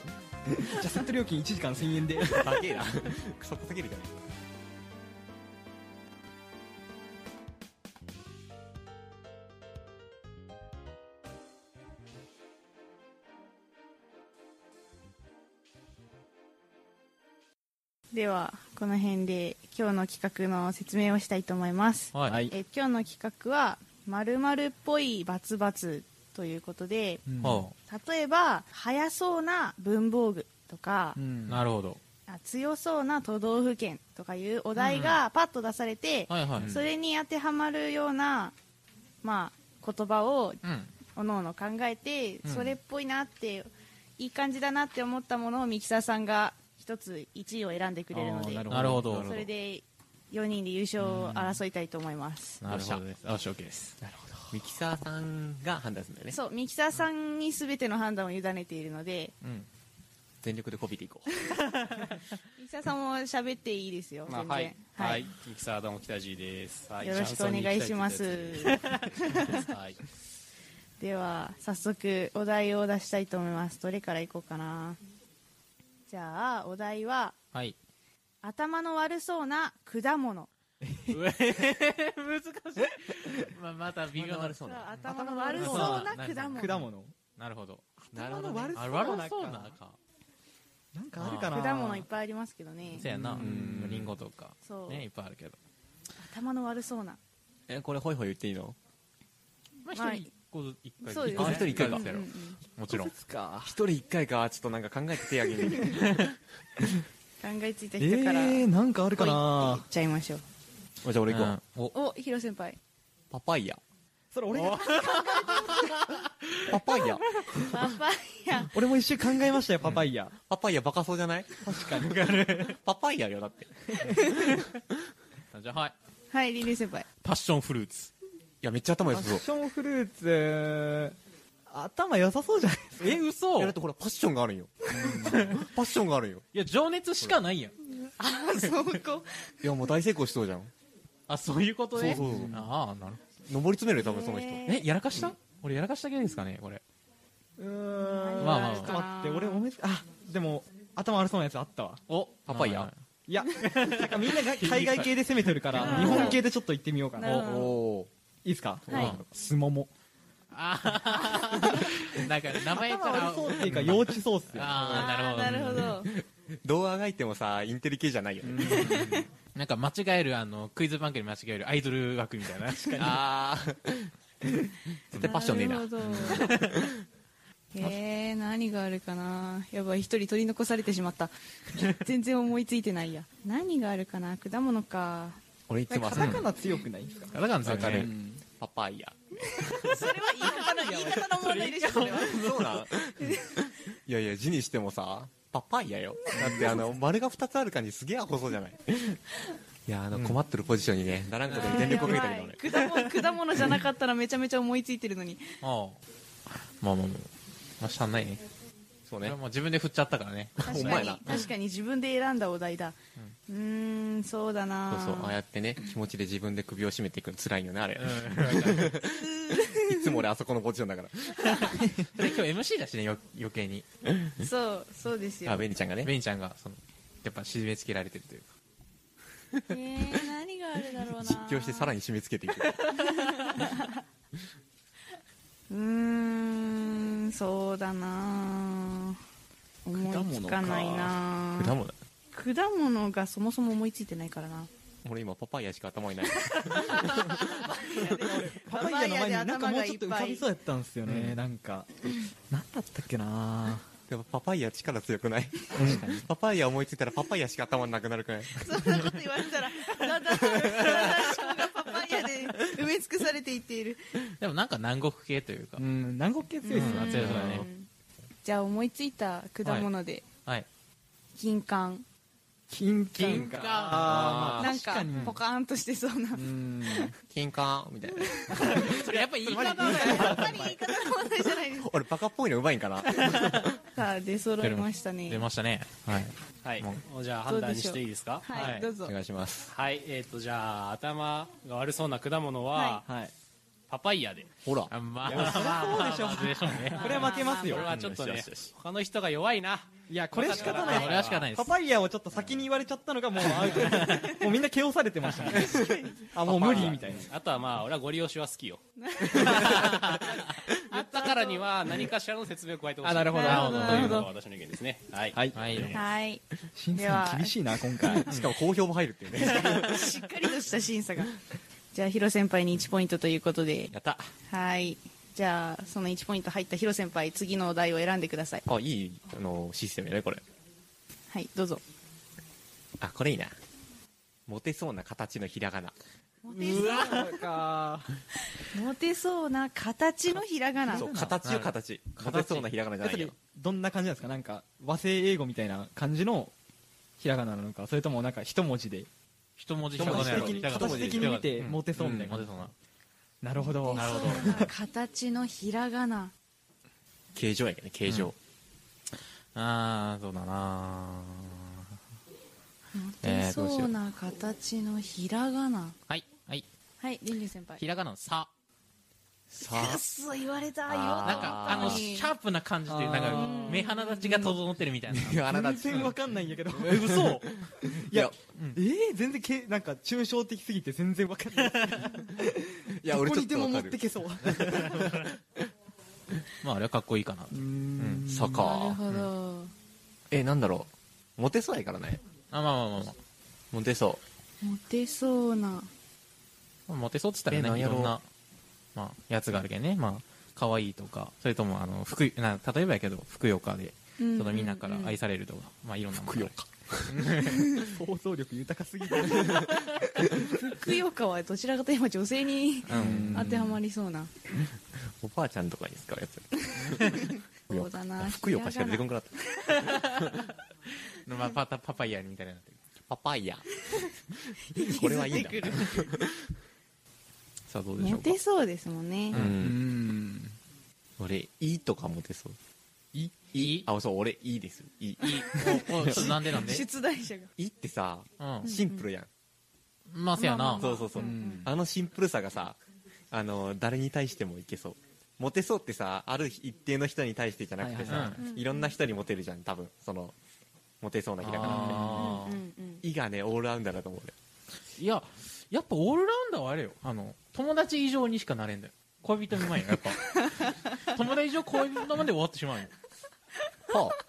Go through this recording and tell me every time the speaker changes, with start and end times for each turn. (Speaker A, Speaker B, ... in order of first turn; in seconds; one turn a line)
Speaker A: 0.5-2.8
Speaker B: 2.3-4.2
Speaker C: 18.1-27.2
Speaker D: 22.1-22.4
Speaker A: 22.3-22.5
Speaker A: 27.3-27.6
Speaker D: 27.4-27.7
Speaker C: 27.9-31.2
Speaker A: 31.1-31.6
Speaker D: 31.5-32.0
Speaker C: 32.3-38.5
Speaker D: 34.8-35.2
Speaker D: 36.3-36.8
Speaker B: 36.5-36.9
Speaker C: 39.2-40.6
Speaker D: 40.6-40.9
Speaker C: 41.1-52.6
Speaker D: 42.4-42.7
Speaker A: 48.1-49.3
Speaker D: 48.6-49.5
Speaker D: 51.0-51.6
Speaker D: 52.6-54.0
Speaker B: 52.6-53.0
Speaker A: 54.0-54.6
Speaker B: 54.5-56.4
Speaker C: 56.3-59.3
Speaker D: 59.4-59.7
Speaker B: 60.4-61.3
Speaker D: 61.8-62.2
Speaker C: 62.6-65.2
Speaker E: 64.3-70.0
Speaker C: 67.0-69.7
Speaker D: 68.7-69.3
Speaker C: 71.0-75.0
Speaker C: 76.1-77.4
Speaker C: 78.4-80.5
Speaker A: 80.8-81.2
Speaker D: 81.1-87.8
Speaker B: 84.1-84.9
Speaker C: 84.6-86.7
Speaker A: 85.1-87.1
Speaker A: 88.0-89.8
Speaker B: 88.1-89.2
Speaker D: 88.7-90.0
Speaker A: 90.9-92.1
Speaker D: 91.2-91.6
Speaker C: 91.5-93.1
Speaker D: 93.0-95.6
Speaker A: 93.0-93.5
Speaker B: 93.4-94.2
Speaker C: 94.6-95.0
Speaker C: 96.2-97.2
Speaker B: 97.7-98.8
Speaker D: 99.8-103.1
Speaker C: 99.9-100.3
Speaker C: 101.0-102.6
Speaker B: 101.0-102.0
Speaker A: 101.4-101.9
Speaker A: 102.9-103.7
Speaker B: 103.6-106.2
Speaker D: 106.0-106.3
Speaker C: 107.4-110.4
Speaker A: 108.0-109.8
Speaker B: 111.0-111.6
Speaker D: 111.3-111.9
Speaker C: 111.9-112.8
Speaker B: 113.3-113.8
Speaker A: 114.3-116.1
Speaker D: 114.5-117.3
Speaker B: 116.7-117.2
Speaker C: 117.5-118.7
Speaker A: 118.6-120.3
Speaker B: 120.5-121.5
Speaker A: 121.6-122.4
Speaker D: 121.9-122.8
Speaker B: 122.6-124.5
Speaker C: 124.1-124.4
Speaker D: 125.5-125.9
Speaker C: 126.3-127.1
Speaker D: 127.2-128.1
Speaker B: 128.6-129.4
Speaker A: 129.1-131.1
Speaker A: 131.7-133.2
Speaker D: 133.0-133.7
Speaker B: 133.6-136.5
Speaker A: 134.9-135.5
Speaker D: 135.1-135.7
Speaker D: 136.5-137.7
Speaker C: 138.0-139.5
Speaker B: 139.6-140.7
Speaker D: 141.3-143.2
Speaker B: 141.9-142.6
Speaker A: 142.2-142.7
Speaker B: 143.4-145.2
Speaker C: 144.0-144.9
Speaker D: 144.7-146.8
Speaker A: 147.6-152.0
Speaker C: 148.0-149.6
Speaker D: 148.4-149.0
Speaker D: 152.1-153.0
Speaker B: 152.4-152.9
Speaker A: 153.3-157.4
Speaker D: 153.6-156.4
Speaker B: 155.8-156.3
Speaker C: 155.8-156.4
Speaker C: 157.2-157.8
Speaker B: 157.2-158.1
Speaker D: 157.3-157.6
Speaker A: 158.4-159.9
Speaker B: 158.9-159.2
Speaker D: 158.9-159.2
Speaker D: 160.5-166.1
Speaker A: 161.6-161.9
Speaker A: 162.7-165.1
Speaker C: 164.7-166.1
Speaker B: 165.5-169.0
Speaker A: 168.4-169.2
Speaker C: 168.6-169.2
Speaker D: 168.8-173.2
Speaker A: 172.7-173.2
Speaker B: 173.0-174.1
Speaker B: 175.1-176.9
Speaker C: 175.1-176.5
Speaker D: 176.1-176.8
Speaker C: 177.7-185.4
Speaker B: 185.7-186.5
Speaker A: 185.9-188.4
Speaker D: 186.1-186.4
Speaker D: 187.3-188.1
Speaker B: 187.6-190.0
Speaker C: 189.4-192.5
Speaker D: 189.9-192.9
Speaker A: 190.8-191.2
Speaker B: 192.2-199.2
Speaker C: 193.2-193.7
Speaker A: 196.3-196.8
Speaker B: 199.8-202.6
Speaker D: 200.1-200.4
Speaker D: 201.5-202.2
Speaker C: 201.6-205.5
Speaker D: 205.6-207.3
Speaker D: 207.8-208.4
Speaker B: 209.1-209.4
Speaker D: 209.2-211.4
Speaker C: 210.6-213.0
Speaker B: 210.6-211.2
Speaker C: 213.5-215.3
Speaker B: 214.9-221.7
Speaker D: 218.0-219.0
Speaker C: 219.1-220.2
Speaker C: 221.4-221.7
Speaker A: 221.7-222.1
Speaker D: 222.2-223.8
Speaker C: 224.4-225.6
Speaker B: 225.4-226.1
Speaker D: 226.0-228.4
Speaker C: 229.7-231.9
Speaker B: 231.2-232.9
Speaker D: 232.8-233.6
Speaker C: 232.9-233.9
Speaker C: 235.7-239.2
Speaker C: 239.8-241.8
Speaker A: 239.9-241.1
Speaker B: 241.6-241.9
Speaker C: 242.3-244.7
Speaker B: 245.0-248.1
Speaker C: 247.4-250.4
Speaker A: 248.0-253.9
Speaker B: 251.1-251.3
Speaker D: 251.1-251.4
Speaker B: 254.1-258.9
Speaker D: 255.8-256.1
Speaker A: 255.8-256.2
Speaker C: 258.5-264.2
Speaker B: 260.4-260.9
Speaker D: 260.8-261.5
Speaker D: 264.4-265.9
Speaker A: 265.8-267.4
Speaker C: 266.6-267.9
Speaker D: 266.7-267.7
Speaker B: 267.1-267.6
Speaker C: 268.4-270.2
Speaker D: 269.6-270.7
Speaker C: 271.3-272.0
Speaker A: 272.7-275.4
Speaker D: 273.2-274.5
Speaker B: 273.2-274.8
Speaker C: 274.5-277.1
Speaker A: 276.3-277.1
Speaker B: 277.3-280.5
Speaker C: 278.1-278.9
Speaker D: 278.5-280.7
Speaker C: 279.5-281.9
Speaker A: 279.6-280.8
Speaker B: 281.8-283.8
Speaker D: 283.2-283.6
Speaker C: 283.9-285.4
Speaker D: 284.6-287.0
Speaker E: 286.6-288.5
Speaker C: 287.5-289.1
Speaker A: 288.5-288.8
Speaker D: 288.5-288.9
Speaker B: 289.0-289.7
Speaker E: 289.7-293.1
Speaker C: 292.7-293.0
Speaker A: 293.1-293.3
Speaker E: 293.9-294.5
Speaker B: 294.6-294.9
Speaker D: 294.9-297.4
Speaker A: 295.2-297.9
Speaker C: 296.9-297.9
Speaker E: 297.3-301.5
Speaker B: 297.7-298.7
Speaker A: 300.1-307.3
Speaker D: 300.5-301.7
Speaker D: 303.6-304.4
Speaker C: 305.5-306.2
Speaker B: 306.4-307.1
Speaker E: 306.6-308.8
Speaker C: 309.0-311.7
Speaker E: 309.4-310.1
Speaker D: 309.5-310.3
Speaker E: 310.7-316.0
Speaker A: 313.0-314.1
Speaker D: 313.3-314.3
Speaker C: 313.3-314.3
Speaker A: 315.3-315.8
Speaker D: 315.5-316.0
Speaker C: 315.9-316.4
Speaker A: 316.7-318.3
Speaker C: 316.9-318.2
Speaker B: 318.2-320.0
Speaker C: 319.4-321.4
Speaker D: 319.6-320.0
Speaker C: 321.9-323.9
Speaker B: 323.9-324.3
Speaker C: 324.5-328.6
Speaker B: 328.6-330.4
Speaker C: 331.3-331.8
Speaker B: 333.0-333.6
Speaker B: 334.5-335.9
Speaker C: 336.4-337.4
Speaker A: 336.5-338.2
Speaker D: 336.6-337.3
Speaker C: 338.6-341.1
Speaker A: 340.9-341.4
Speaker B: 340.9-343.3
Speaker D: 341.4-342.7
Speaker A: 343.0-346.5
Speaker A: 347.2-349.1
Speaker D: 349.6-352.7
Speaker B: 349.9-352.4
Speaker A: 349.9-352.6
Speaker A: 353.4-354.7
Speaker C: 353.8-356.3
Speaker D: 353.9-354.6
Speaker B: 357.3-358.3
Speaker D: 359.5-361.9
Speaker C: 362.9-366.0
Speaker B: 363.2-363.9
Speaker D: 366.1-366.6
Speaker C: 367.0-367.8
Speaker D: 367.8-368.5
Speaker C: 369.5-372.3
Speaker B: 369.6-370.0
Speaker B: 370.9-372.1
Speaker D: 371.2-376.1
Speaker A: 372.9-374.0
Speaker C: 373.3-374.3
Speaker B: 375.1-376.1
Speaker A: 375.5-385.1
Speaker D: 376.8-377.6
Speaker B: 376.9-378.3
Speaker D: 378.5-378.8
Speaker B: 382.9-385.4
Speaker D: 384.6-385.1
Speaker D: 386.6-388.2
Speaker A: 387.5-388.6
Speaker B: 388.2-389.0
Speaker C: 388.5-389.7
Speaker B: 390.3-392.2
Speaker D: 392.5-393.2
Speaker B: 393.7-394.2
Speaker C: 394.6-395.9
Speaker D: 396.9-398.2
Speaker B: 397.5-398.1
Speaker D: 398.9-407.8
Speaker C: 404.2-405.2
Speaker B: 406.3-407.1
Speaker C: 407.4-407.9
Speaker A: 407.7-410.9
Speaker C: 409.3-409.6
Speaker C: 410.4-414.3
Speaker D: 412.9-413.4
Speaker A: 412.9-413.8
Speaker B: 412.9-413.3
Speaker B: 415.2-420.4
Speaker C: 416.6-419.9
Speaker D: 416.9-417.2
Speaker D: 419.8-420.4
Speaker D: 421.0-422.8
Speaker B: 423.1-423.7
Speaker C: 423.8-424.1
Speaker C: 424.6-426.1
Speaker B: 424.7-426.4
Speaker D: 427.6-428.4
Speaker C: 428.0-429.4
Speaker D: 429.3-429.6
Speaker B: 429.3-429.8
Speaker A: 429.4-430.6
Speaker B: 431.2-432.6
Speaker B: 433.1-436.5
Speaker D: 433.5-433.9
Speaker D: 435.2-436.9
Speaker C: 435.2-437.5
Speaker B: 437.6-439.3
Speaker D: 438.4-438.7
Speaker C: 438.6-439.1
Speaker D: 440.1-441.1
Speaker C: 440.4-441.7
Speaker B: 440.8-442.8
Speaker A: 441.1-441.7
Speaker B: 443.3-450.3
Speaker A: 447.8-448.4
Speaker D: 448.1-448.4
Speaker C: 448.4-448.9
Speaker B: 451.0-452.4
Speaker D: 451.4-452.6
Speaker A: 451.6-452.3
Speaker C: 452.2-453.0
Speaker B: 453.0-454.3
Speaker D: 455.0-462.9
Speaker C: 460.4-460.7
Speaker C: 463.9-464.2
Speaker B: 463.9-464.2